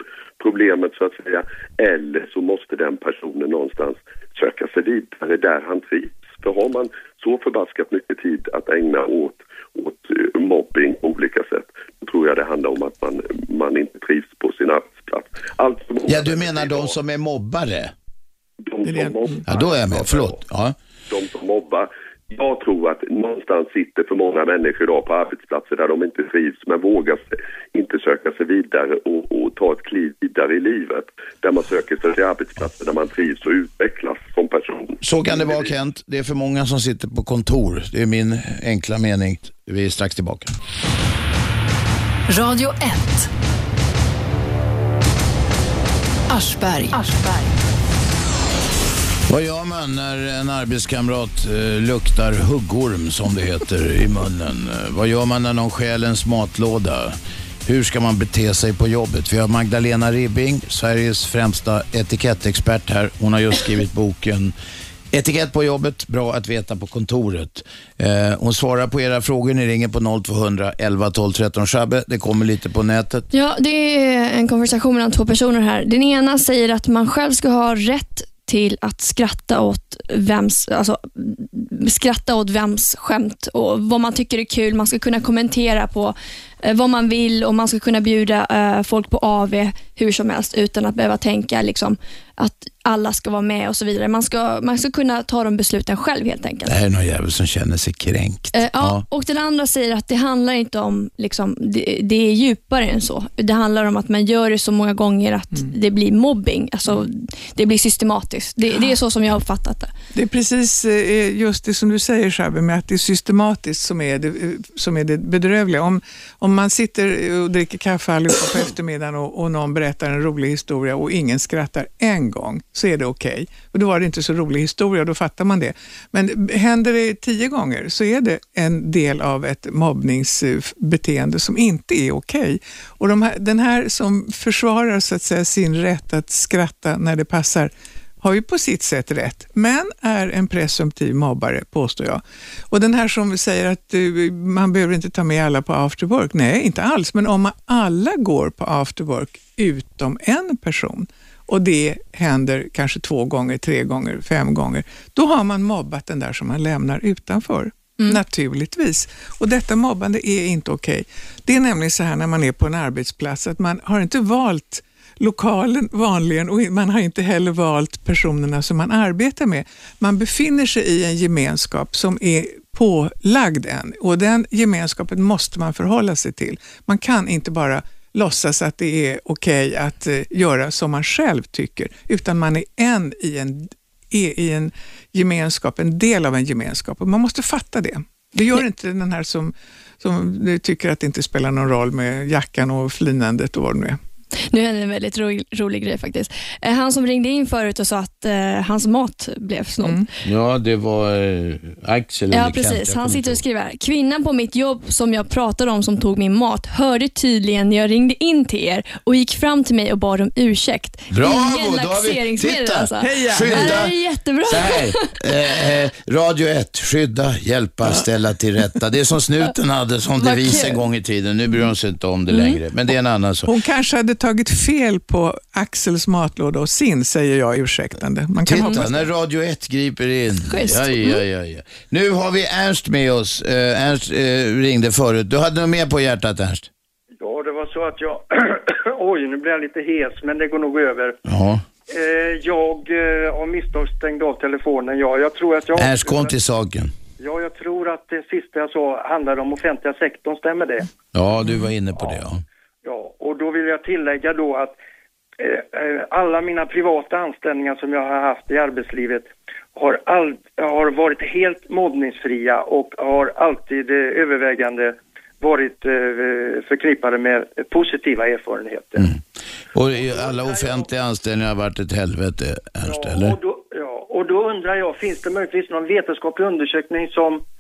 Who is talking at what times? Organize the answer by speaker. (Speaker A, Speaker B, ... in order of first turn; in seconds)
Speaker A: 0.4-16.9, 18.6-20.4, 21.1-35.6
Speaker B: 16.1-17.9, 19.5-20.8, 35.0-40.5, 49.3-64.5, 65.1-73.3, 96.7-99.0, 200.2-203.4, 211.1-213.9, 214.5-223.5, 228.4-236.7, 241.2-241.6, 245.7-246.9, 251.1-252.4, 269.7-273.4
Speaker C: 18.8-19.4, 110.1-194.0, 213.0-213.9, 223.5-229.1
Speaker D: 42.3-43.4, 46.3-48.5
Speaker E: 73.3-96.8, 98.5-109.9, 194.5-200.1, 202.3-215.2, 220.2-220.8, 222.3-222.6, 230.5-231.2
Speaker F: 237.2-241.2, 241.9-246.3, 247.2-250.9, 251.9-252.2, 252.8-254.8, 255.4-269.1, 270.0-270.9, 272.8-277.4